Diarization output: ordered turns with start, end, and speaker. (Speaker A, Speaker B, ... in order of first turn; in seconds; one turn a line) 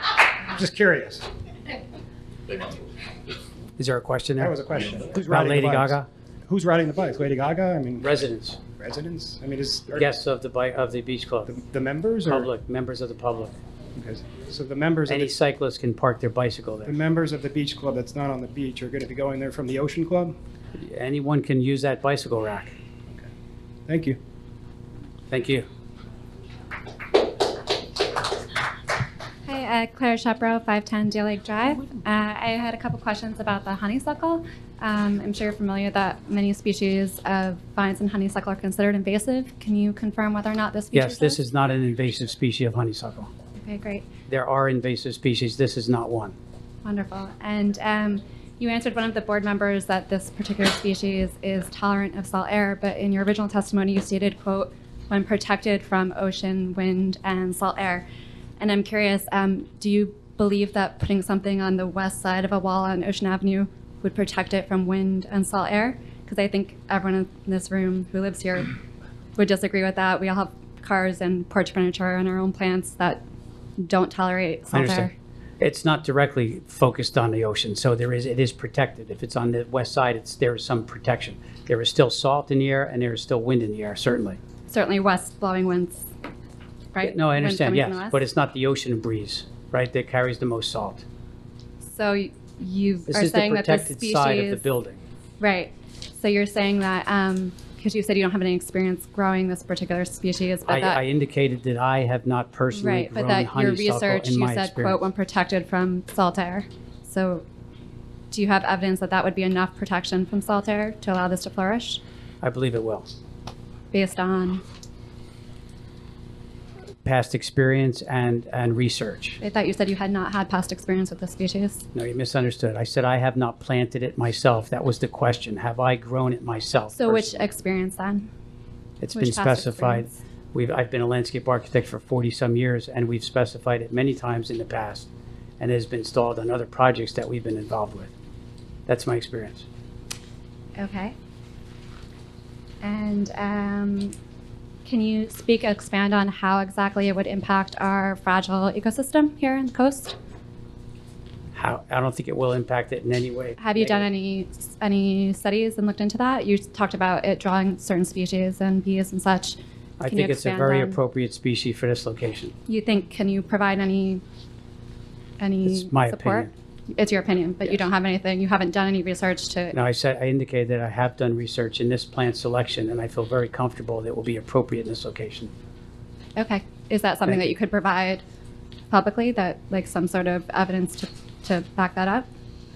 Speaker A: 0.5-1.3
Speaker B: 3.8-4.6
Speaker A: 4.4-8.1
Speaker B: 5.1-6.1
Speaker B: 8.0-8.6
Speaker A: 8.8-10.1
Speaker B: 9.9-11.6
Speaker A: 11.5-12.5
Speaker B: 12.2-13.6
Speaker A: 14.0-15.4
Speaker B: 15.1-17.0
Speaker A: 16.9-20.4
Speaker B: 20.8-22.7
Speaker A: 23.9-24.2
Speaker B: 25.3-25.7
Speaker C: 29.5-41.4
Speaker B: 40.9-43.3
Speaker C: 43.6-44.1
Speaker B: 44.3-46.4
Speaker C: 46.9-58.0
Speaker C: 58.6-68.7
Speaker C: 69.4-73.2
Speaker C: 73.8-75.1
Speaker B: 74.7-84.4
Speaker C: 84.7-86.1
Speaker C: 86.9-88.2
Speaker B: 87.0-91.0
Speaker C: 91.9-94.6
Speaker B: 93.1-95.0
Speaker C: 95.4-101.0
Speaker B: 100.7-105.0
Speaker C: 102.7-107.4
Speaker C: 108.3-112.0
Speaker B: 112.4-113.1
Speaker C: 113.9-114.6
Speaker B: 117.0-119.4
Speaker C: 119.4-121.8
Speaker B: 122.0-127.4
Speaker C: 126.9-128.3
Speaker B: 129.0-138.1
Speaker C: 129.1-130.1
Speaker B: 138.9-139.7
Speaker C: 140.8-141.2
Speaker C: 142.8-144.1
Speaker C: 144.8-150.2
Speaker B: 151.5-154.1
Speaker C: 153.6-161.0
Speaker B: 160.0-162.5
Speaker C: 162.7-164.2
Speaker C: 165.4-169.8
Speaker B: 165.7-166.5
Speaker B: 169.7-175.5
Speaker C: 176.4-178.2
Speaker C: 178.9-182.3